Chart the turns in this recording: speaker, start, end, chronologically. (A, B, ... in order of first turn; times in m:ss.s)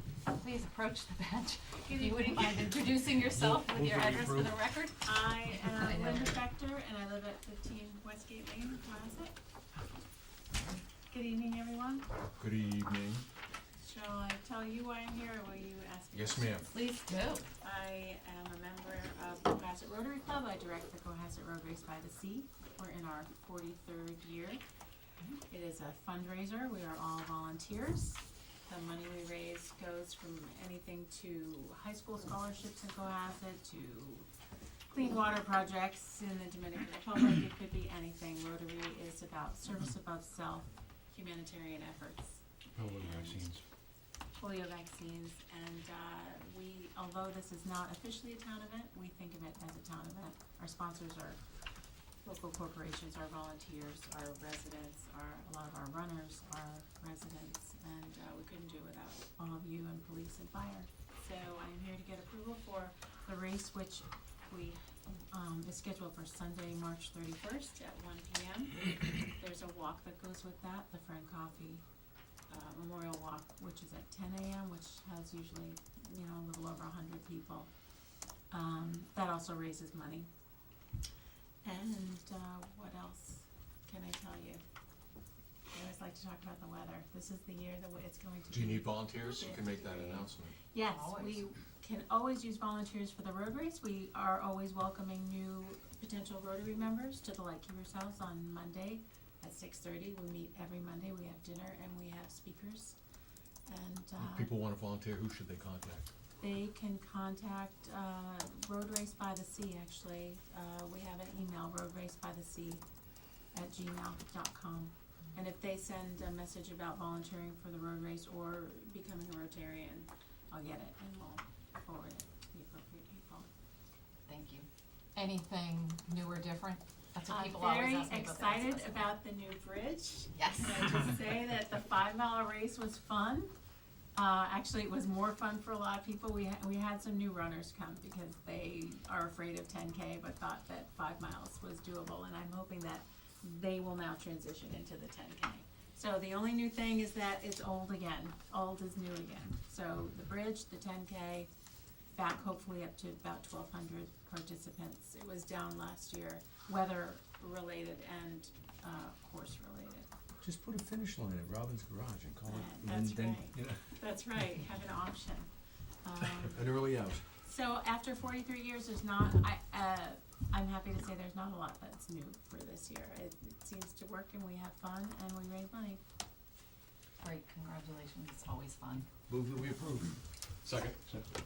0:00.3-0:05.0 A
0:01.8-0:02.7 B
0:05.0-0:09.3 B
0:05.7-0:06.4 A
0:11.1-0:12.0 B
0:12.4-0:13.2 C
0:13.8-0:16.7 B
0:16.1-0:16.7 C
0:16.7-0:17.5 A
0:17.6-0:24.6 B
0:25.5-0:34.3 B
0:34.9-0:42.4 B
0:42.8-0:43.5 D
0:42.9-0:43.5 B
0:44.4-0:51.4 B
0:52.2-1:11.8 B
1:12.5-1:17.7 B
1:18.5-1:20.3 B
1:21.6-1:24.6 B
1:25.7-1:43.0 B
1:28.5-1:30.6 C
1:30.9-1:31.4 A
1:43.6-1:44.5 B
1:44.2-1:46.1 C
1:46.4-1:52.8 B
1:53.5-2:03.5 B
2:04.3-2:09.1 A
2:07.3-2:13.5 B
2:10.3-2:10.9 A
2:14.1-2:31.5 B
2:32.1-2:40.1 B
2:40.4-2:43.8 D
2:42.5-2:45.5 B
2:46.0-2:46.8 B
2:46.5-2:47.2 D
2:47.4-2:56.0 B
2:57.2-2:59.1 A
2:59.3-3:00.1 D
3:00.6-3:01.0 C